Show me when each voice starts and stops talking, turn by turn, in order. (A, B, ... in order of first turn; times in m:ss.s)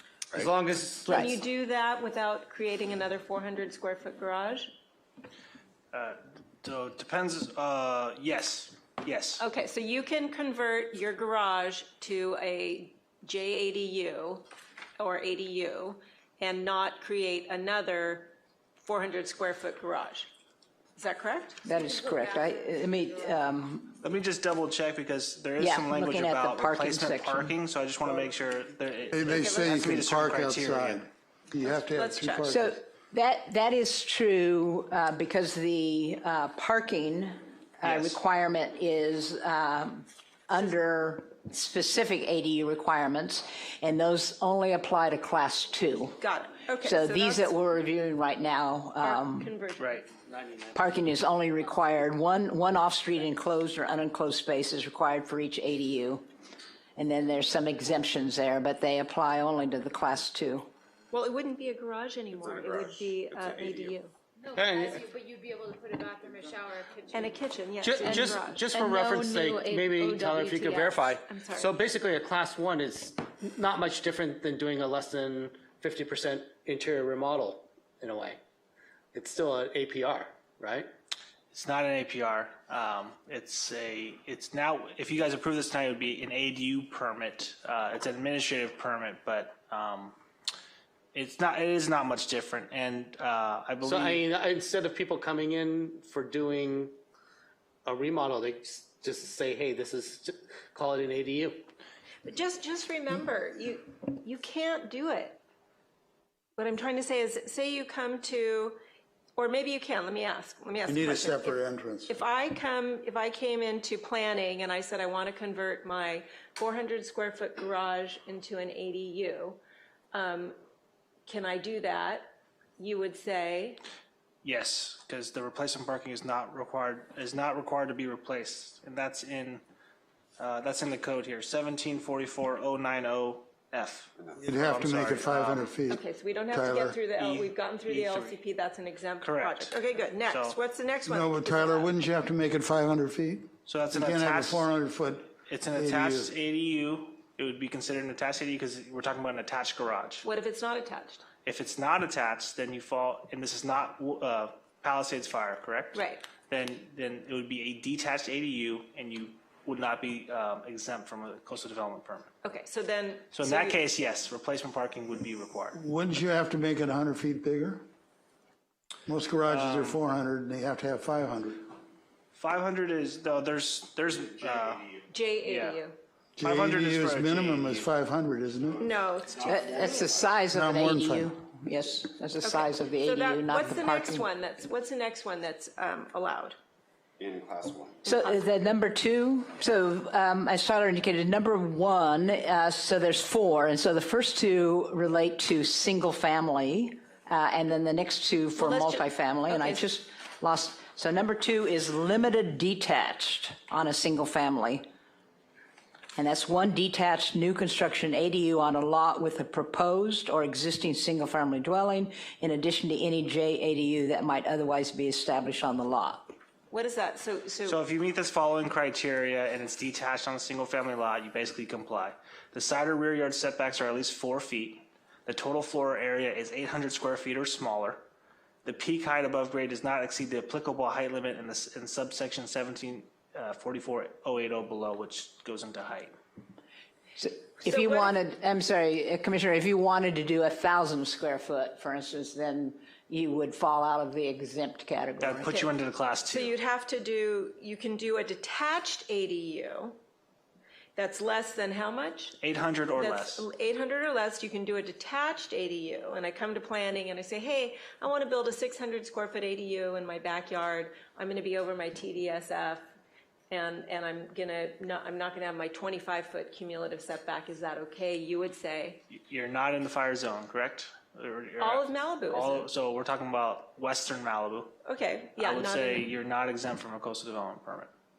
0:00.3-0:01.3 A
0:01.1-0:01.3 B
0:01.1-0:04.7 C
0:05.9-0:09.4 D
0:09.4-0:14.4 C
0:15.0-0:20.3 C
0:21.0-0:21.6 C
0:21.6-0:24.0 B
0:21.8-0:23.4 E
0:24.0-0:31.1 D
0:25.6-0:27.5 B
0:29.1-0:32.8 F
0:29.3-0:29.8 C
0:31.6-0:32.5 C
0:32.5-0:46.2 B
0:37.8-0:38.2 D
0:46.2-0:47.6 C
0:46.8-0:49.6 B
0:49.0-0:50.1 C
0:49.8-0:50.0 D
0:50.1-0:50.8 A
0:50.7-0:56.3 B
0:57.0-1:00.7 B
1:01.1-1:04.1 C
1:02.4-1:03.9 G
1:04.4-1:07.4 E
1:04.5-1:05.0 A
1:07.1-1:08.7 C
1:07.8-1:18.4 A
1:08.0-1:11.2 E
1:11.3-1:11.7 C
1:19.1-1:20.9 A
1:21.5-1:30.2 D
1:31.1-1:34.2 D
1:33.8-1:37.0 A
1:37.8-1:41.7 A
1:42.2-1:45.4 C
1:46.6-1:48.8 C
1:49.4-1:59.6 C
1:50.9-1:52.1 F
2:00.1-2:00.6 C
2:01.3-2:03.8 C
2:04.4-2:09.6 D
2:10.4-2:15.7 D
2:14.4-2:17.0 F
2:15.9-2:21.9 C
2:17.2-2:18.4 D
2:19.2-2:20.6 D
2:21.0-2:26.3 F
2:23.7-2:24.7 D
2:25.5-2:30.2 D
2:30.2-2:31.2 C
2:31.4-2:42.3 D
2:35.9-2:36.2 C
2:42.4-2:43.8 C
2:43.3-2:45.8 D
2:45.7-2:47.8 F
2:49.1-2:51.7 F
2:49.5-2:50.0 D
2:52.3-2:54.9 D
2:54.4-2:54.8 G
2:55.1-2:56.0 C
2:55.4-2:55.8 D
2:56.4-2:58.8 F
2:56.4-2:57.9 D
2:58.8-3:00.0 C
2:59.4-3:04.3 B
3:00.5-3:01.3 F
3:02.4-3:06.6 C
3:07.2-3:07.9 G
3:08.0-3:24.9 B
3:18.6-3:19.9 C
3:26.2-3:36.3 B
3:36.7-3:37.8 C
3:37.7-3:48.0 D
3:48.6-3:56.2 D
3:57.2-4:05.5 B
3:57.6-3:58.1 C
4:05.2-4:06.6 D
4:05.4-4:05.7 C
4:06.3-4:10.0 C
4:11.0-4:12.4 C
4:12.4-4:13.5 D
4:13.0-4:22.9 C
4:23.5-4:29.0 C
4:29.1-4:34.7 D
4:31.6-4:32.7 C
4:34.8-4:36.1 C
4:35.4-4:37.9 D